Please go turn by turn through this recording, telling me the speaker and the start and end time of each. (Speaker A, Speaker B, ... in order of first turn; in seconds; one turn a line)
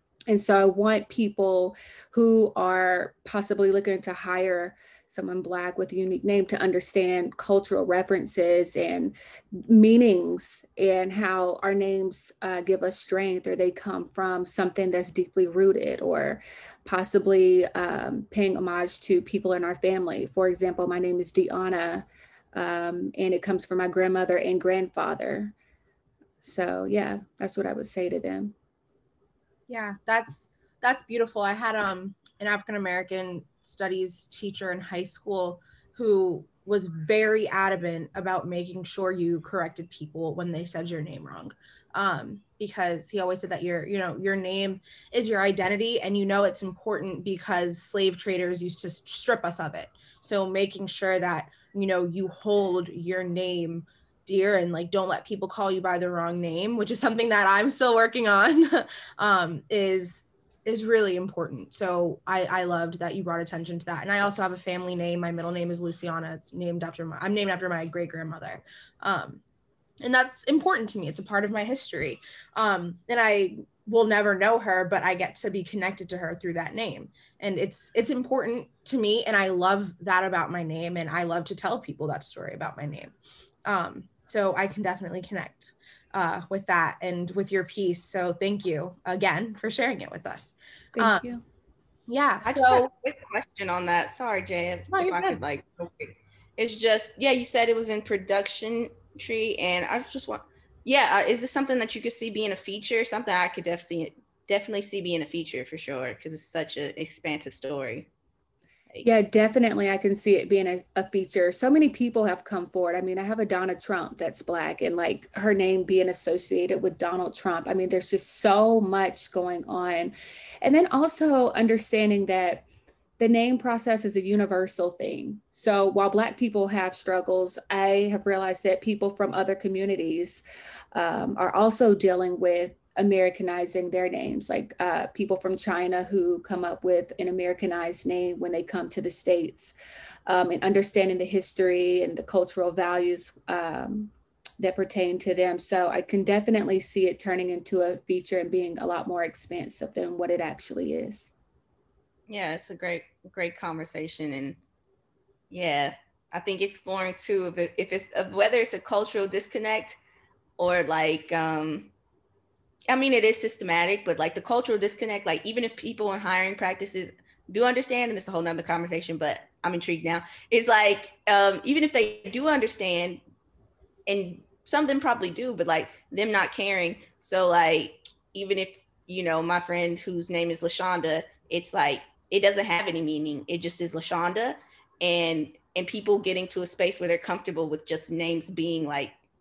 Speaker A: 0.3-25.5
Speaker A: 26.4-28.5
Speaker B: 29.7-69.4
Speaker B: 70.0-83.1
Speaker B: 83.7-91.2
Speaker A: 91.0-91.3
Speaker B: 92.1-92.9
Speaker C: 92.4-108.1
Speaker B: 94.9-95.4
Speaker A: 109.0-122.6
Speaker A: 123.2-130.4
Speaker A: 130.9-139.7
Speaker A: 140.3-151.3
Speaker C: 152.3-154.6
Speaker C: 155.5-160.0
Speaker C: 160.6-161.9
Speaker C: 162.9-173.2
Speaker C: 174.1-189.1